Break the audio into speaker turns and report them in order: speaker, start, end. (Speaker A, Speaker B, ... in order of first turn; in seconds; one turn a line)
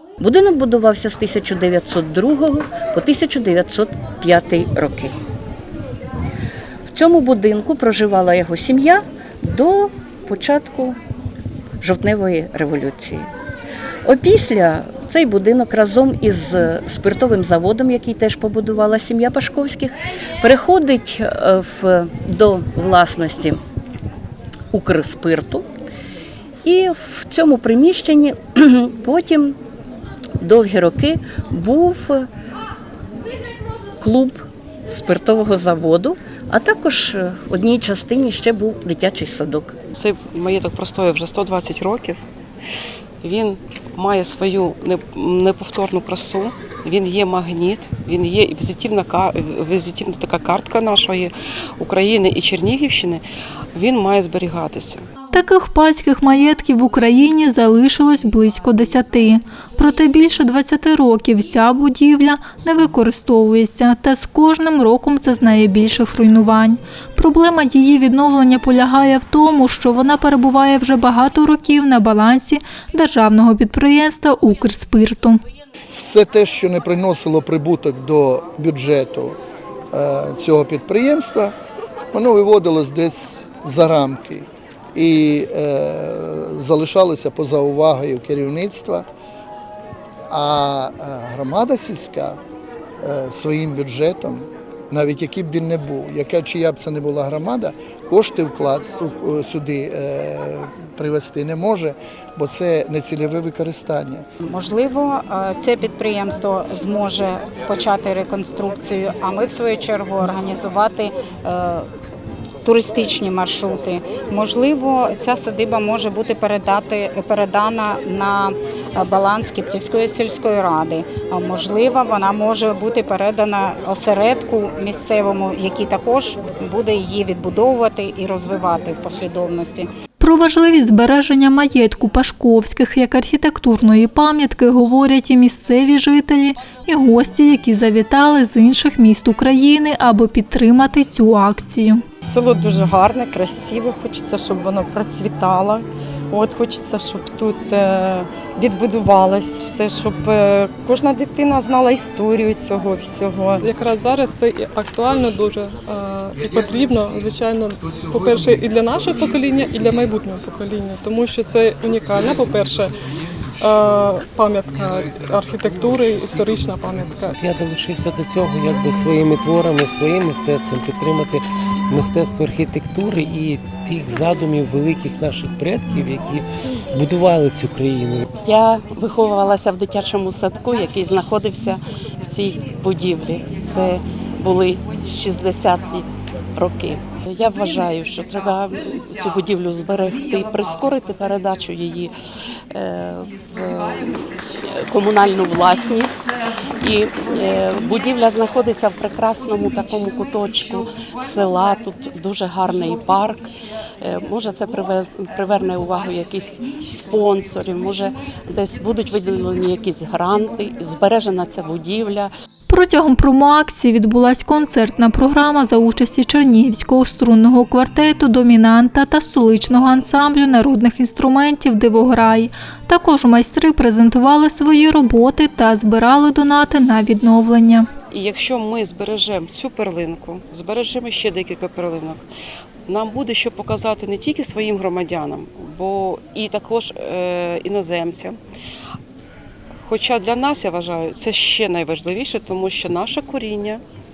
Speaker A: 0.2-5.1
Speaker A: 6.9-11.0
Speaker A: 11.8-13.3
Speaker A: 14.1-23.6
Speaker A: 24.7-25.7
Speaker A: 26.6-29.6
Speaker A: 30.4-32.3
Speaker A: 34.0-39.8
Speaker B: 39.9-42.2
Speaker B: 43.2-55.0
Speaker C: 55.3-75.4
Speaker D: 75.9-79.4
Speaker D: 79.9-81.5
Speaker D: 82.1-89.0
Speaker D: 90.3-92.4
Speaker D: 93.0-104.2
Speaker E: 104.4-111.9
Speaker E: 112.6-129.9
Speaker C: 130.2-142.0
Speaker F: 142.2-153.7
Speaker G: 153.7-162.9
Speaker D: 156.3-160.4
Speaker D: 161.9-162.9
Speaker D: 163.6-167.3
Speaker G: 163.7-167.3
Speaker H: 167.4-178.2
Speaker I: 178.4-192.1
Speaker I: 192.7-203.5
Speaker I: 204.0-212.3
Speaker C: 212.7-227.9
Speaker B: 228.1-232.2
Speaker B: 232.9-238.4
Speaker B: 239.8-243.8